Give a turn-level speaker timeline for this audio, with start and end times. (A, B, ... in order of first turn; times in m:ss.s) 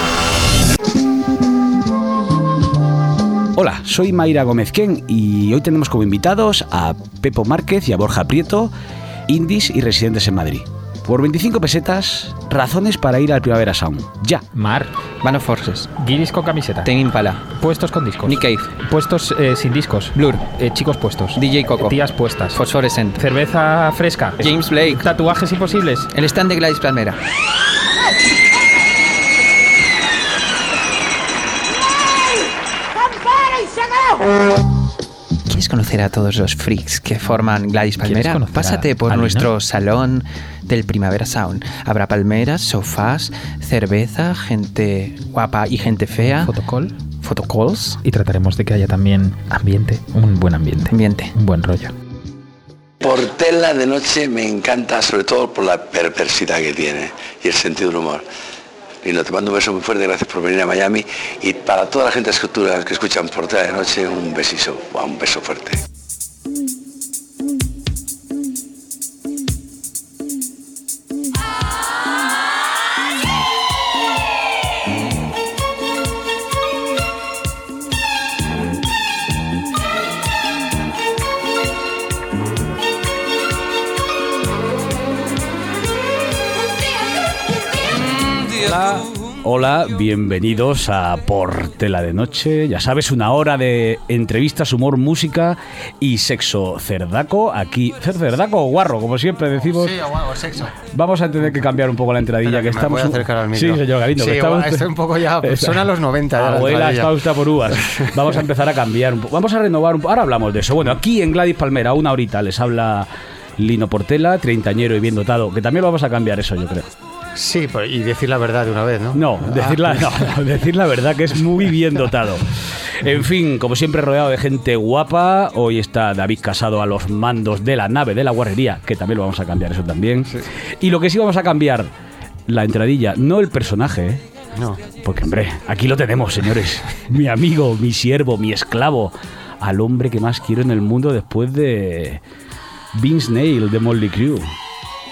0:03.5-0:08.7 A
0:09.3-0:14.4 A
0:14.5-0:14.9 B
0:15.2-0:15.9 C
0:15.9-0:16.9 B
0:16.8-0:17.4 C
0:17.4-0:22.6 B
0:18.2-0:18.6 C
0:21.4-0:23.2 C
0:23.1-0:26.1 B
0:24.4-0:25.0 C
0:26.1-0:27.2 C
0:35.5-0:46.6 C
0:38.0-0:39.5 B
0:46.4-0:46.9 B
0:47.2-0:48.0 C
0:47.7-0:51.9 B
0:50.9-0:51.3 C
0:53.0-0:58.2 D
0:59.0-1:05.8 D
1:28.6-1:40.0 A
1:39.7-1:40.7 E
1:40.9-1:56.9 A
1:42.4-1:47.2 E
1:47.7-1:48.2 E
1:57.3-2:00.3 E
1:59.1-2:11.9 A
2:12.5-2:14.2 A
2:14.5-2:14.8 E
2:15.0-2:22.2 A
2:22.9-2:24.5 A